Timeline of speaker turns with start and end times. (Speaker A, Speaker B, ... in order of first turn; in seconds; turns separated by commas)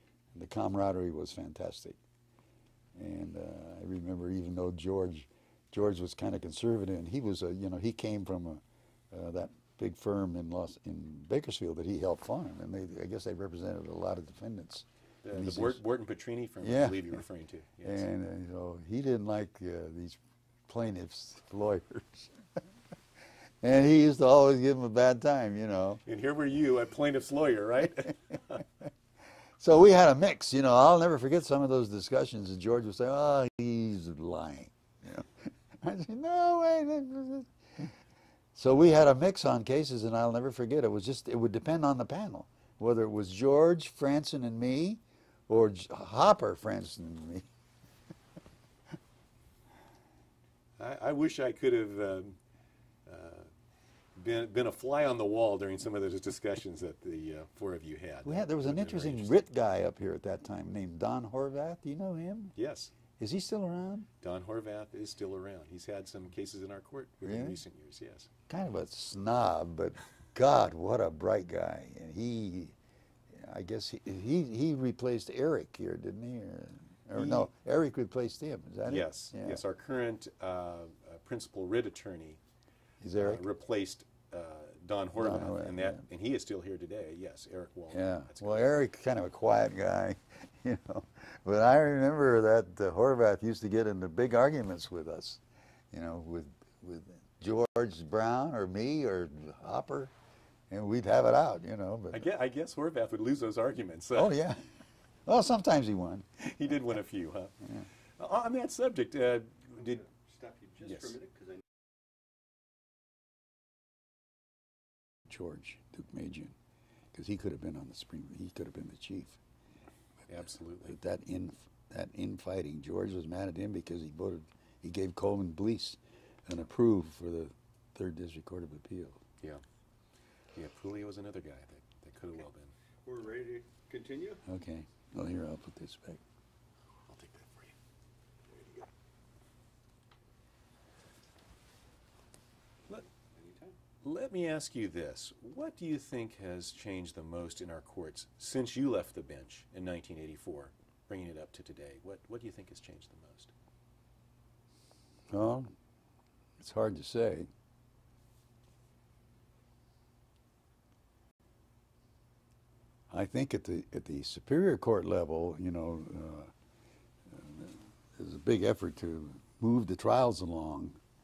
Speaker A: 0.3-2.0, Speaker A: 3.0-15.8, Speaker B: 15.2-18.1, Speaker A: 16.6-17.2, Speaker A: 17.8-22.3, Speaker A: 23.6-26.0, Speaker B: 26.1-28.6, Speaker A: 29.6-37.9, Speaker A: 38.5-47.5, Speaker B: 50.8-52.4, Speaker B: 53.0-53.5, Speaker B: 54.1-59.4, Speaker A: 58.2-62.5, Speaker B: 62.5-62.9, Speaker A: 63.2-64.1, Speaker B: 64.2-68.3, Speaker A: 67.2-67.6, Speaker A: 68.5-72.7, Speaker A: 73.3-79.6, Speaker B: 77.2-77.5, Speaker B: 78.8-82.4, Speaker A: 83.0-83.4, Speaker B: 83.2-88.7, Speaker A: 85.2-86.0, Speaker A: 87.9-100.1, Speaker A: 100.7-102.2, Speaker B: 102.1-104.3, Speaker A: 104.1-104.6, Speaker A: 105.2-106.5, Speaker B: 106.4-107.5, Speaker B: 108.2-110.0, Speaker C: 109.9-111.6, Speaker B: 110.8-111.2, Speaker A: 115.3-116.5, Speaker A: 117.1-119.4, Speaker B: 120.3-121.0, Speaker A: 120.8-129.2, Speaker B: 130.5-132.7, Speaker C: 133.0-134.4, Speaker A: 134.4-136.2, Speaker B: 137.1-137.7, Speaker C: 143.4-143.7, Speaker B: 144.0-153.5, Speaker A: 155.3-155.7, Speaker A: 156.6-157.5, Speaker A: 163.1-166.5, Speaker A: 167.3-171.0